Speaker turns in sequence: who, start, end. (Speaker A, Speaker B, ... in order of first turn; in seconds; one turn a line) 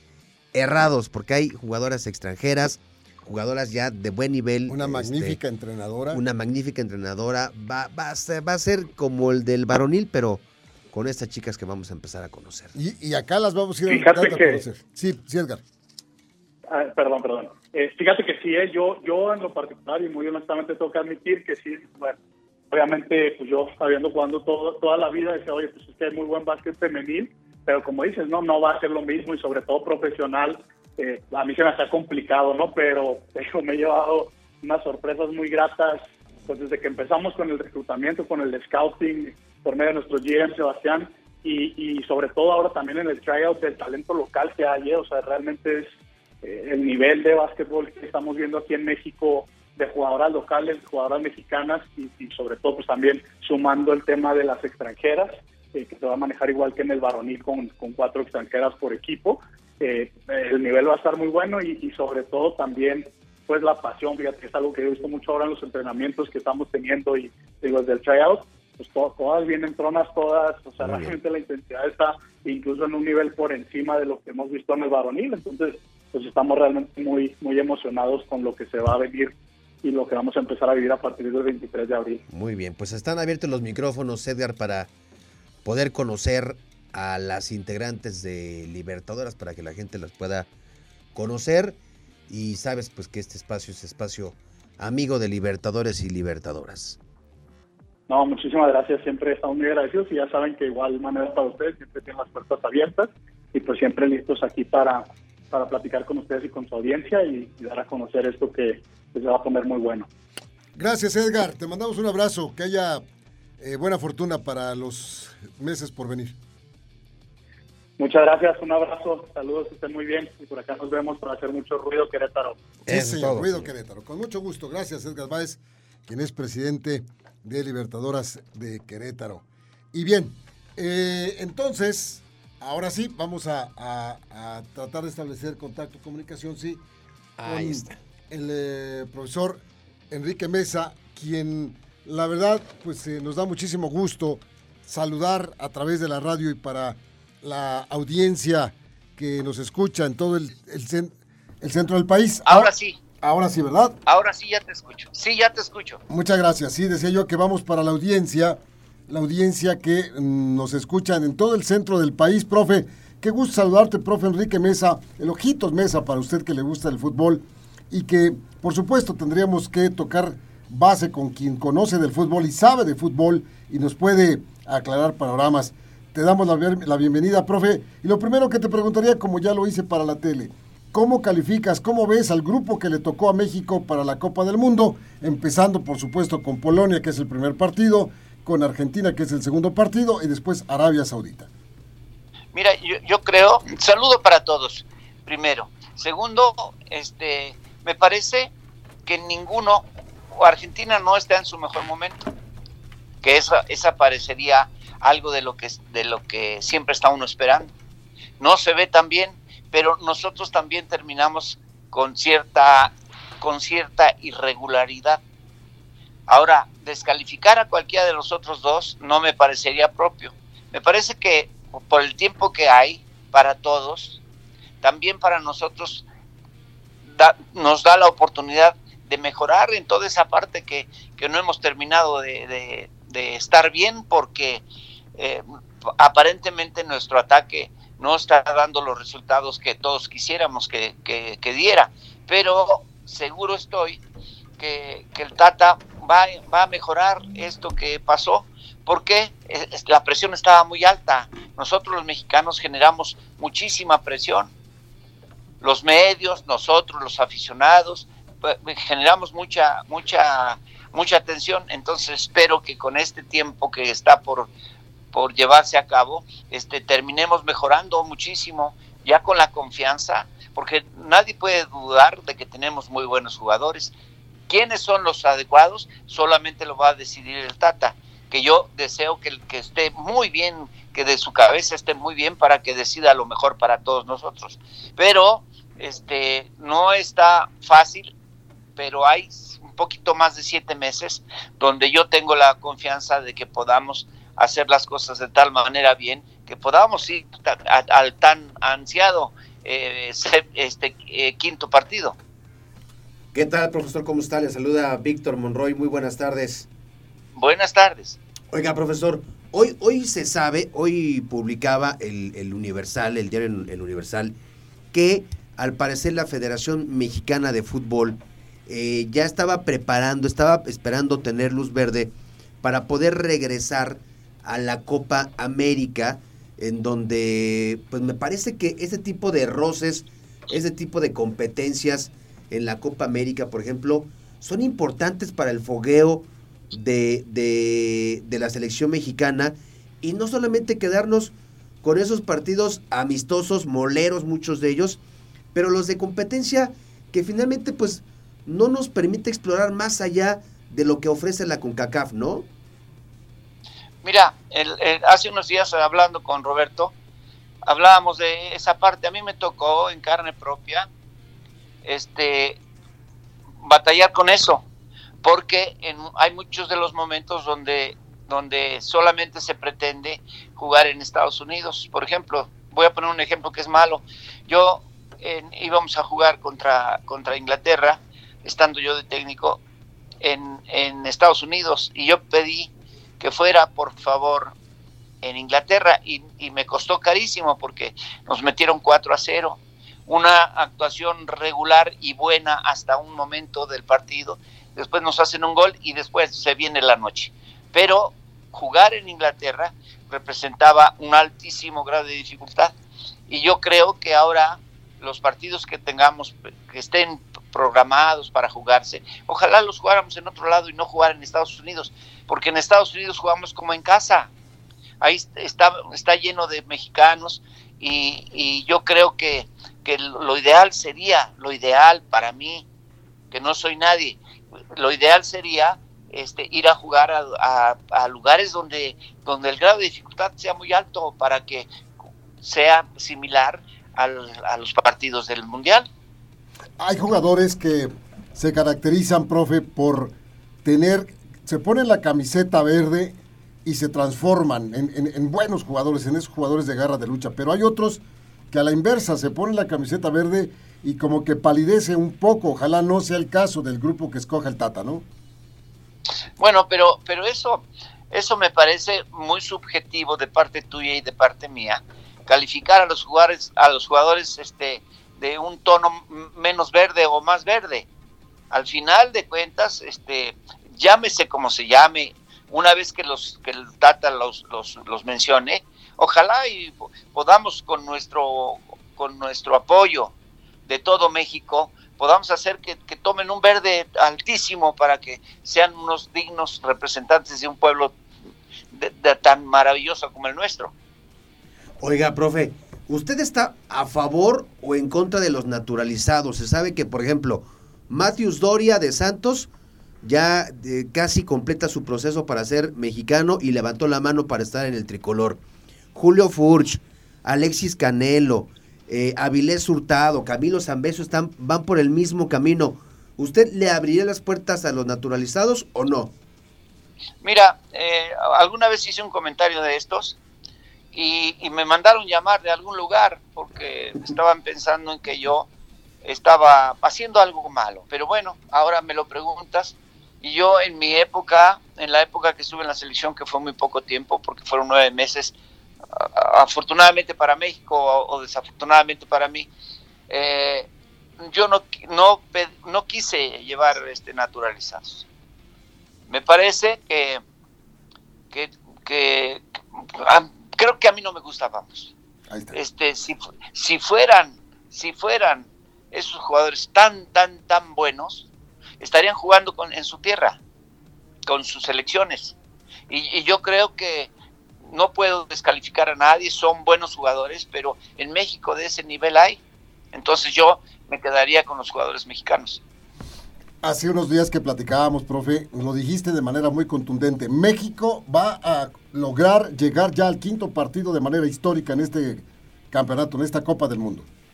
Speaker A: 0.5-5.4
Speaker B: 4.7-6.2
Speaker A: 6.1-12.7
Speaker B: 12.7-15.6
Speaker C: 13.9-14.6
Speaker C: 16.7-22.2
Speaker C: 22.7-45.9
Speaker C: 46.4-82.2
Speaker A: 82.3-84.9
Speaker A: 85.6-90.5
Speaker A: 91.1-91.8
Speaker A: 92.3-97.0
Speaker C: 98.1-110.1
Speaker B: 110.7-113.0
Speaker B: 113.6-116.4
Speaker C: 118.0-122.6
Speaker A: 122.8-123.7
Speaker B: 122.8-136.8
Speaker A: 137.4-138.0
Speaker B: 137.4-154.0
Speaker D: 152.4-153.0
Speaker D: 154.1-156.0
Speaker B: 156.1-191.5
Speaker D: 192.5-198.5
Speaker D: 199.1-202.3
Speaker D: 203.2-207.7
Speaker D: 208.4-215.2
Speaker D: 216.3-224.2
Speaker D: 224.8-226.1
Speaker D: 227.1-234.6
Speaker D: 235.2-244.0
Speaker D: 244.6-254.5
Speaker D: 255.6-264.5
Speaker D: 265.1-273.9
Speaker D: 274.5-288.1
Speaker D: 288.8-302.2
Speaker A: 303.3-306.7
Speaker D: 307.3-308.2
Speaker A: 308.5-314.3
Speaker A: 314.9-345.0
Speaker A: 345.5-352.5
Speaker D: 354.0-356.9
Speaker D: 357.6-360.9
Speaker D: 361.8-362.6
Speaker D: 363.6-364.6
Speaker D: 365.2-379.6
Speaker D: 380.2-384.5
Speaker D: 385.2-402.7
Speaker D: 403.3-414.3
Speaker D: 415.0-422.6
Speaker D: 423.3-424.2
Speaker D: 424.7-431.7
Speaker D: 432.4-435.9
Speaker B: 436.8-455.0
Speaker D: 456.4-467.9
Speaker D: 468.5-480.1
Speaker D: 480.6-487.9
Speaker D: 488.7-490.7
Speaker A: 491.8-499.5
Speaker A: 500.0-505.4
Speaker A: 505.9-516.1
Speaker D: 517.2-520.2
Speaker D: 520.9-525.5
Speaker D: 526.0-535.3
Speaker D: 535.9-539.5
Speaker D: 540.1-540.7
Speaker D: 541.2-545.0
Speaker D: 546.1-547.2
Speaker D: 548.3-549.4
Speaker D: 550.0-551.9
Speaker B: 552.3-552.6
Speaker D: 552.5-558.3
Speaker D: 558.8-560.4
Speaker D: 561.2-562.4
Speaker D: 562.9-564.1
Speaker D: 564.7-569.4
Speaker D: 569.9-572.6
Speaker B: 573.6-584.1